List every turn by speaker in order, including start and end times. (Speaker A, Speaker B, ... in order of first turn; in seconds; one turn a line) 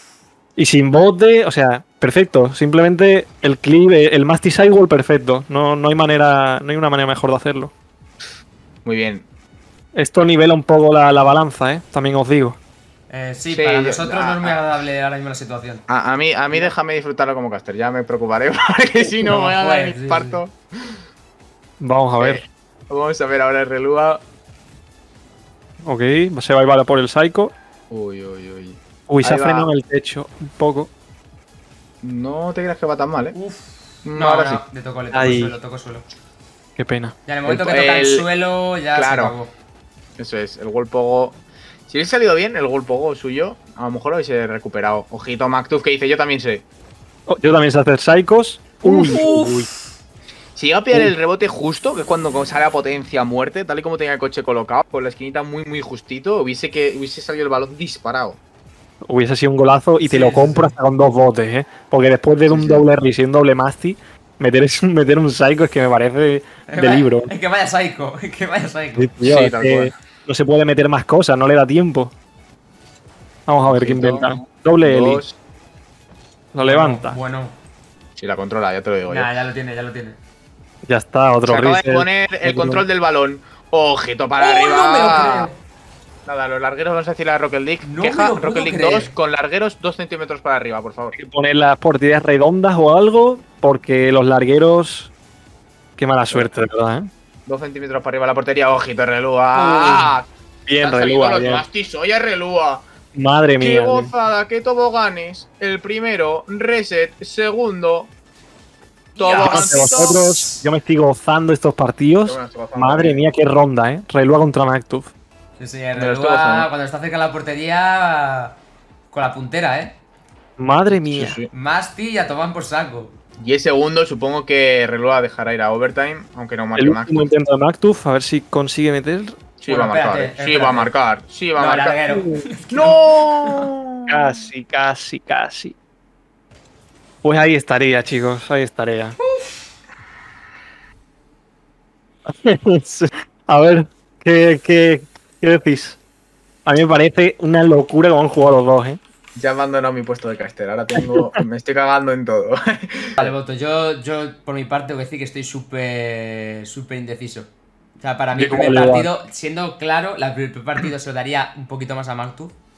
Speaker A: 0.6-7.7
Speaker B: 8.8-9.2
Speaker A: 9.9-12.6
Speaker C: 13.1-15.8
Speaker B: 13.5-14.6
Speaker B: 15.9-20.9
Speaker C: 19.2-20.4
Speaker A: 21.8-22.4
Speaker B: 22.2-24.2
Speaker A: 25.8-27.5
Speaker B: 27.9-29.7
Speaker A: 29.1-30.9
Speaker B: 32.0-33.4
Speaker C: 33.3-36.0
Speaker B: 34.0-34.6
Speaker A: 35.1-35.5
Speaker A: 36.8-37.1
Speaker C: 37.2-39.5
Speaker B: 37.5-38.2
Speaker B: 38.9-39.3
Speaker B: 40.2-41.4
Speaker B: 41.9-46.6
Speaker A: 47.3-49.7
Speaker B: 48.8-49.3
Speaker C: 49.0-49.7
Speaker B: 50.5-58.4
Speaker A: 59.0-67.3
Speaker C: 60.0-60.7
Speaker B: 62.5-62.8
Speaker C: 66.7-69.2
Speaker A: 69.0-72.1
Speaker B: 69.2-69.9
Speaker A: 73.5-75.2
Speaker B: 73.7-75.3
Speaker A: 76.5-77.2
Speaker C: 76.6-77.5
Speaker B: 78.2-79.3
Speaker C: 79.0-80.2
Speaker A: 80.8-82.8
Speaker B: 81.4-85.5
Speaker C: 84.4-85.6
Speaker B: 86.2-91.2
Speaker C: 87.8-89.1
Speaker A: 91.1-95.1
Speaker A: 96.0-97.1
Speaker B: 97.5-100.3
Speaker C: 99.5-100.1
Speaker A: 100.7-101.6
Speaker B: 100.8-102.8
Speaker A: 103.1-104.1
Speaker B: 103.6-108.1
Speaker C: 109.1-109.8
Speaker B: 109.2-110.6
Speaker A: 109.3-115.1
Speaker B: 112.2-113.2
Speaker C: 115.6-118.6
Speaker B: 116.0-116.7
Speaker C: 119.1-120.0
Speaker A: 120.6-121.4
Speaker B: 120.9-121.5
Speaker C: 121.5-123.1
Speaker B: 123.4-127.3
Speaker A: 126.8-129.4
Speaker B: 129.6-131.9
Speaker C: 129.7-130.9
Speaker C: 131.6-133.7
Speaker A: 132.1-132.4
Speaker B: 132.7-134.4
Speaker A: 134.1-135.7
Speaker A: 137.2-139.2
Speaker A: 142.2-146.0
Speaker A: 146.6-149.0
Speaker B: 149.3-153.2
Speaker A: 150.9-151.3
Speaker C: 153.2-162.6
Speaker A: 158.3-159.1